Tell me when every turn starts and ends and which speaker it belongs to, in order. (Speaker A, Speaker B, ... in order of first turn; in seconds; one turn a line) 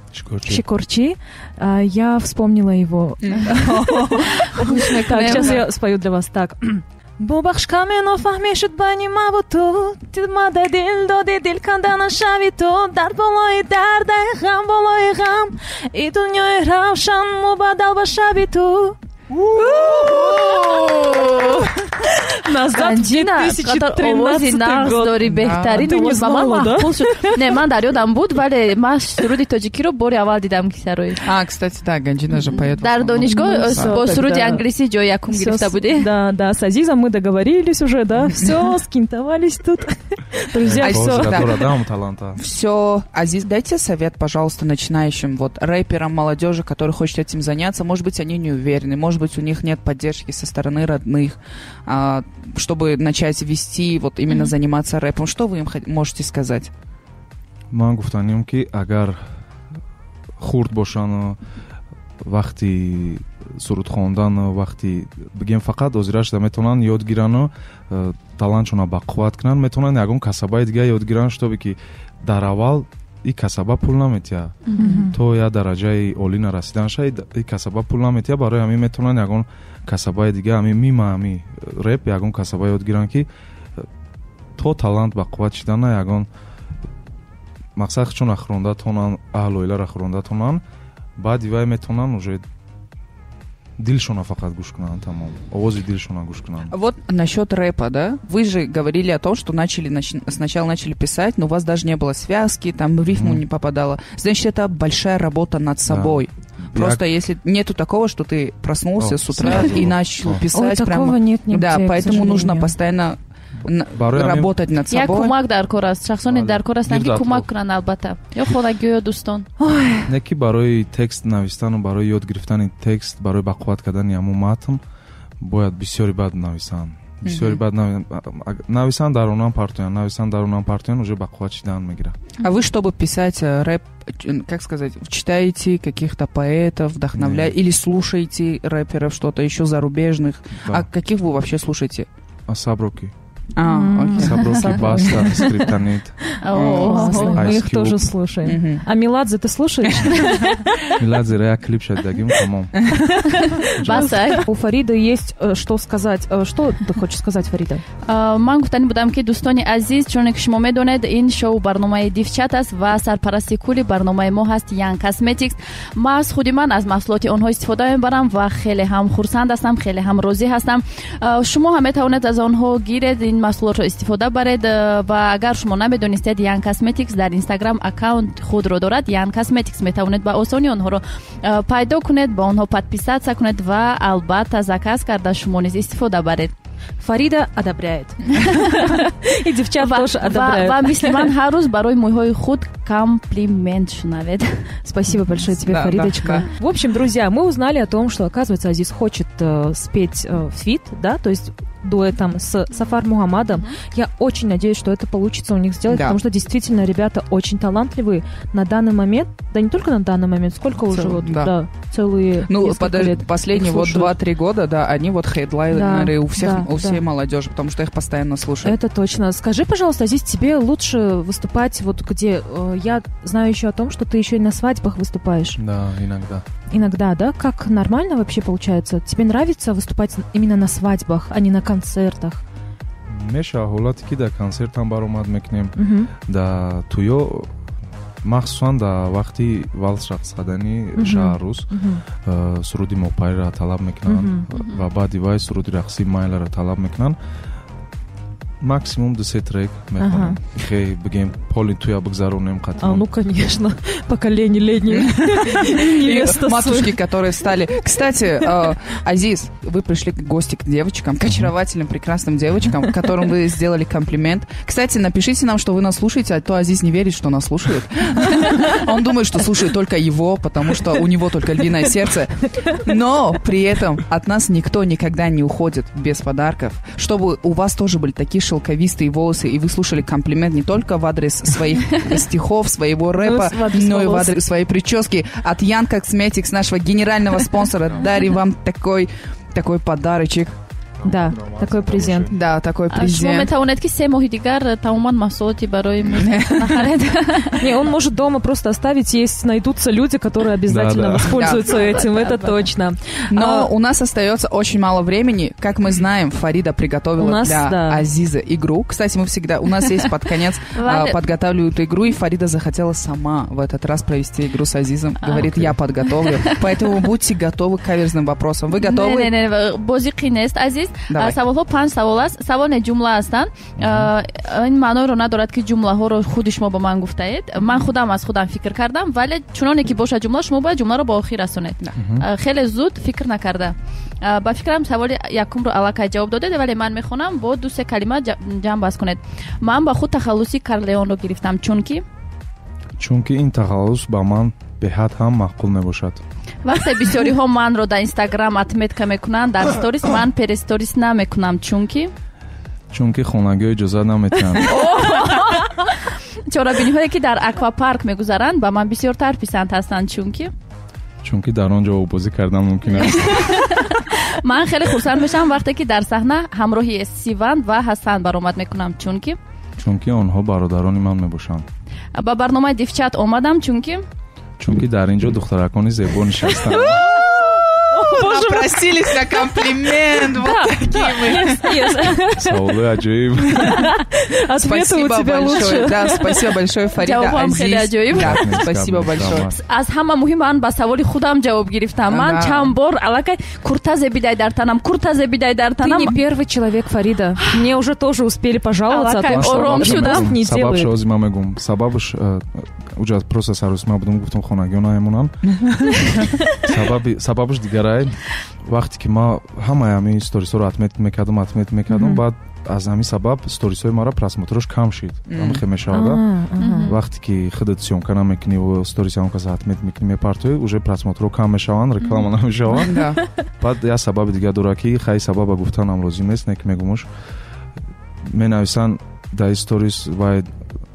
Speaker A: 0.1-0.6
Speaker B: 0.5-19.0
Speaker C: 3.2-5.6
Speaker D: 4.5-5.6
Speaker C: 19.5-20.4
Speaker B: 19.5-27.4
Speaker D: 19.8-21.7
Speaker D: 22.7-31.2
Speaker C: 25.4-25.9
Speaker C: 31.2-34.0
Speaker D: 32.5-36.1
Speaker B: 33.3-34.6
Speaker B: 35.3-41.5
Speaker A: 40.6-42.4
Speaker C: 40.8-41.7
Speaker C: 42.4-56.7
Speaker A: 57.7-59.3
Speaker A: 60.4-61.4
Speaker A: 62.2-83.9
Speaker D: 74.7-75.0
Speaker B: 74.8-75.2
Speaker A: 84.5-86.3
Speaker A: 87.8-90.6
Speaker A: 91.2-92.4
Speaker A: 93.8-96.7
Speaker C: 96.7-115.3
Speaker A: 103.1-103.4
Speaker A: 105.9-107.0
Speaker A: 109.0-110.4
Speaker B: 110.5-112.7
Speaker A: 113.9-114.5
Speaker D: 114.9-119.5
Speaker A: 116.3-117.5
Speaker B: 119.6-120.1
Speaker A: 120.0-124.8
Speaker A: 125.4-132.2
Speaker C: 127.2-127.6
Speaker C: 132.4-142.1
Speaker A: 137.1-137.5
Speaker A: 142.5-143.1
Speaker C: 143.6-145.1
Speaker B: 143.6-145.7
Speaker A: 144.2-146.2
Speaker B: 146.4-150.6
Speaker D: 146.4-147.4
Speaker C: 146.5-147.4
Speaker A: 147.3-148.1
Speaker C: 148.4-148.8
Speaker A: 150.9-152.8
Speaker C: 152.8-153.1
Speaker B: 153.3-157.8
Speaker D: 153.6-154.4
Speaker A: 153.8-154.2
Speaker D: 158.0-186.5
Speaker B: 187.0-191.3
Speaker D: 188.4-189.0
Speaker D: 189.8-194.7
Speaker B: 194.8-214.1
Speaker C: 195.6-196.5
Speaker C: 205.9-206.2
Speaker C: 210.9-211.5
Speaker C: 212.4-218.8
Speaker B: 215.7-217.0
Speaker B: 218.6-225.6
Speaker A: 225.6-226.4
Speaker B: 226.7-232.4
Speaker A: 233.1-237.5
Speaker B: 235.8-236.1
Speaker A: 238.2-247.2
Speaker B: 240.9-242.0
Speaker B: 244.1-244.4
Speaker D: 244.5-244.8
Speaker A: 248.6-253.1
Speaker B: 250.0-250.4
Speaker B: 252.8-258.0
Speaker C: 254.9-290.6
Speaker A: 261.2-261.5
Speaker B: 283.2-284.4
Speaker A: 291.0-292.5
Speaker B: 291.0-292.3
Speaker C: 292.3-293.5
Speaker D: 292.9-297.6
Speaker C: 296.1-296.8
Speaker B: 297.6-303.7
Speaker A: 300.7-301.4
Speaker C: 301.3-301.6
Speaker D: 301.7-302.6
Speaker C: 303.3-319.3
Speaker B: 307.2-308.0
Speaker D: 310.7-311.2
Speaker D: 315.2-316.9
Speaker A: 315.4-315.8
Speaker D: 318.8-342.0
Speaker C: 321.1-321.4
Speaker A: 323.8-324.1
Speaker A: 331.9-332.2
Speaker A: 343.0-346.2
Speaker D: 346.6-352.1
Speaker A: 352.9-354.8
Speaker D: 354.6-360.5
Speaker A: 361.2-363.6
Speaker D: 363.0-369.4
Speaker A: 369.8-371.6
Speaker D: 372.1-374.0
Speaker A: 374.6-377.0
Speaker B: 377.9-382.8
Speaker C: 377.9-381.7
Speaker D: 381.3-382.1
Speaker A: 382.4-383.8
Speaker B: 383.5-386.4
Speaker C: 384.6-389.5
Speaker D: 387.0-388.6
Speaker A: 388.1-389.6
Speaker D: 389.5-396.2
Speaker C: 392.1-392.7
Speaker B: 395.8-400.9
Speaker D: 398.9-400.3
Speaker A: 399.3-405.3
Speaker C: 405.5-406.4
Speaker A: 406.6-416.2
Speaker B: 411.9-412.2
Speaker C: 415.3-415.6
Speaker B: 415.9-416.9
Speaker D: 416.6-417.0
Speaker A: 416.8-427.1
Speaker C: 422.8-423.2
Speaker A: 428.2-430.5